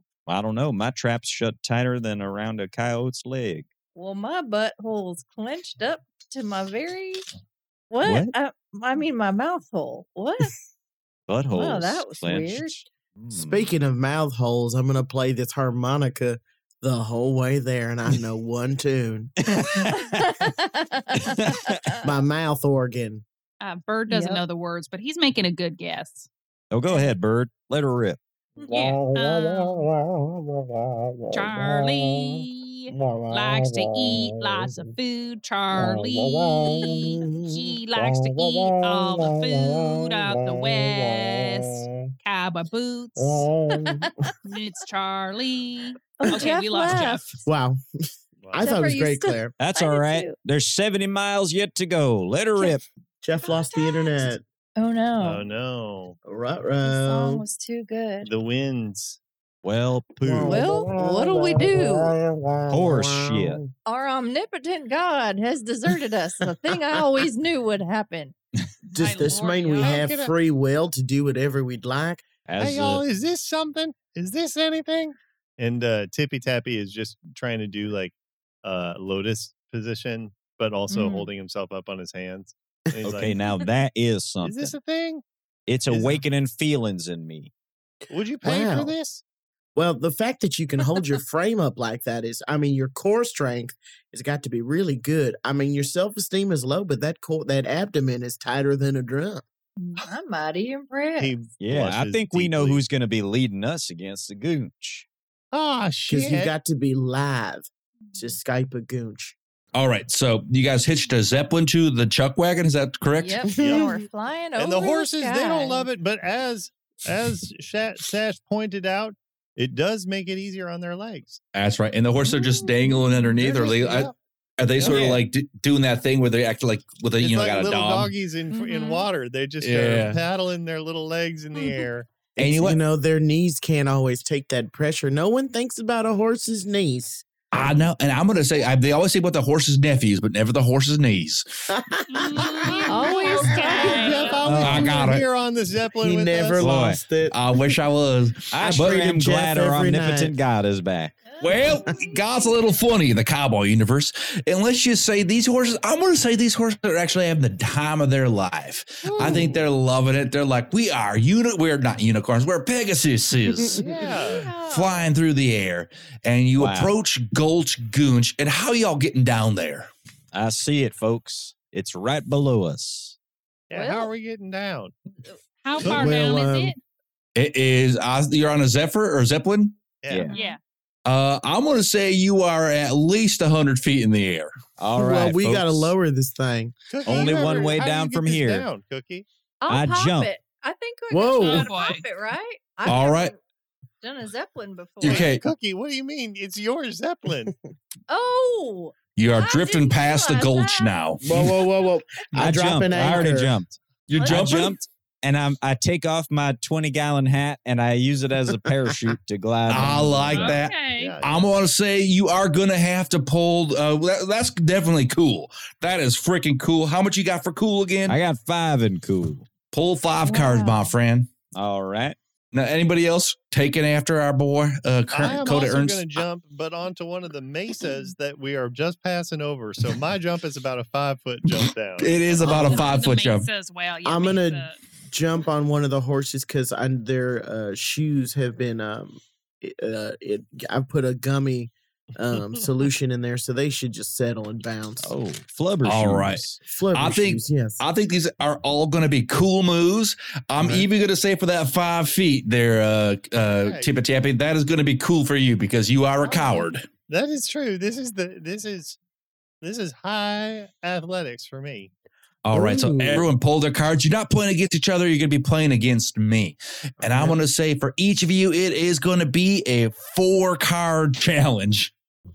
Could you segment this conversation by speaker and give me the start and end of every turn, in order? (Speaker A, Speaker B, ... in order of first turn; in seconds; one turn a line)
Speaker A: 0.3-3.7
Speaker B: 4.0-7.2
Speaker B: 7.9-10.5
Speaker A: 8.0-8.3
Speaker A: 11.3-13.7
Speaker B: 11.5-12.9
Speaker C: 13.3-19.6
Speaker A: 19.4-20.4
Speaker B: 19.9-22.0
Speaker A: 21.2-21.8
Speaker C: 22.0-23.2
Speaker D: 23.6-26.3
Speaker B: 24.1-24.4
Speaker A: 26.7-28.2
Speaker D: 28.7-29.9
Speaker C: 28.7-31.8
Speaker D: 31.3-43.5
Speaker C: 33.0-33.9
Speaker C: 35.8-39.9
Speaker C: 43.2-44.1
Speaker B: 43.7-44.3
Speaker D: 44.4-47.3
Speaker B: 46.2-47.4
Speaker C: 47.5-47.8
Speaker E: 48.4-48.7
Speaker C: 48.5-49.5
Speaker B: 48.6-50.4
Speaker A: 49.6-52.8
Speaker C: 53.2-54.4
Speaker B: 53.5-54.3
Speaker B: 54.8-55.5
Speaker E: 55.2-56.2
Speaker C: 56.2-57.5
Speaker B: 56.8-58.3
Speaker E: 58.2-59.2
Speaker A: 59.6-60.6
Speaker C: 60.2-63.7
Speaker B: 60.4-62.2
Speaker A: 62.7-63.6
Speaker B: 63.9-68.3
Speaker C: 68.9-72.2
Speaker D: 68.9-70.2
Speaker E: 69.8-70.3
Speaker A: 72.5-73.0
Speaker E: 72.6-83.3
Speaker B: 80.9-81.3
Speaker A: 83.0-84.8
Speaker E: 84.4-85.2
Speaker A: 85.7-87.5
Speaker E: 85.9-86.2
Speaker E: 88.1-89.2
Speaker C: 88.4-88.9
Speaker C: 89.8-99.4
Speaker B: 99.8-101.3
Speaker E: 101.2-102.8
Speaker A: 101.6-105.1
Speaker E: 105.5-106.5
Speaker C: 106.1-109.4
Speaker F: 109.7-113.5
Speaker B: 113.2-115.9
Speaker C: 113.6-114.0
Speaker E: 113.6-114.0
Speaker E: 114.6-121.4
Speaker F: 121.5-128.1
Speaker B: 122.3-122.6
Speaker E: 123.4-124.2
Speaker A: 124.8-125.2
Speaker E: 127.2-132.2
Speaker B: 128.6-129.0
Speaker F: 129.6-130.2
Speaker B: 131.6-131.8
Speaker F: 132.4-132.8
Speaker C: 132.4-137.3
Speaker F: 137.5-141.7
Speaker C: 141.7-144.0
Speaker D: 142.1-144.5
Speaker B: 142.9-144.4
Speaker E: 143.7-146.7
Speaker A: 144.4-145.0
Speaker F: 144.6-145.3
Speaker C: 146.0-147.6
Speaker A: 146.6-147.0
Speaker F: 147.3-149.0
Speaker A: 148.5-151.2
Speaker C: 148.6-150.3
Speaker B: 151.3-152.5
Speaker F: 151.4-163.9
Speaker E: 159.1-159.5
Speaker C: 159.2-159.7
Speaker C: 163.6-163.9
Speaker E: 163.8-164.5
Speaker B: 163.8-165.1
Speaker F: 164.6-169.9
Speaker A: 166.6-166.9
Speaker A: 170.3-173.2
Speaker E: 173.7-174.9
Speaker B: 173.7-174.1
Speaker D: 175.6-176.8
Speaker C: 175.8-176.7
Speaker E: 175.8-176.2
Speaker F: 177.4-179.8
Speaker E: 180.0-180.3
Speaker A: 180.1-180.3
Speaker B: 180.3-180.6
Speaker D: 180.3-180.6
Speaker F: 181.1-184.5
Speaker A: 184.8-185.6
Speaker C: 184.9-186.7
Speaker F: 185.4-185.9
Speaker E: 186.9-189.3
Speaker A: 187.1-188.7
Speaker B: 187.1-187.7
Speaker B: 189.6-193.4
Speaker A: 189.7-190.3
Speaker C: 191.1-191.7
Speaker D: 191.4-192.1
Speaker F: 192.8-193.3
Speaker B: 194.0-195.3
Speaker F: 195.0-195.4
Speaker E: 195.0-197.5
Speaker B: 198.1-201.1
Speaker F: 199.2-201.6
Speaker C: 201.2-203.6
Speaker A: 202.3-210.5
Speaker F: 204.1-204.8
Speaker B: 204.2-204.8
Speaker F: 209.7-218.2
Speaker D: 210.3-211.2
Speaker E: 210.3-211.6
Speaker A: 218.1-219.5
Speaker F: 219.7-221.3
Speaker B: 220.2-220.9
Speaker A: 221.6-222.2
Speaker F: 222.5-226.1
Speaker E: 225.1-232.8
Speaker F: 231.5-233.5
Speaker C: 232.4-232.9
Speaker D: 232.4-234.8
Speaker C: 234.0-245.1
Speaker A: 245.0-246.6
Speaker F: 245.8-256.9
Speaker C: 246.7-247.8
Speaker C: 250.6-250.9
Speaker E: 253.6-253.9
Speaker B: 256.2-256.7
Speaker E: 257.1-259.0
Speaker E: 259.6-261.9
Speaker F: 262.4-271.9
Speaker C: 262.5-263.3
Speaker C: 267.0-267.4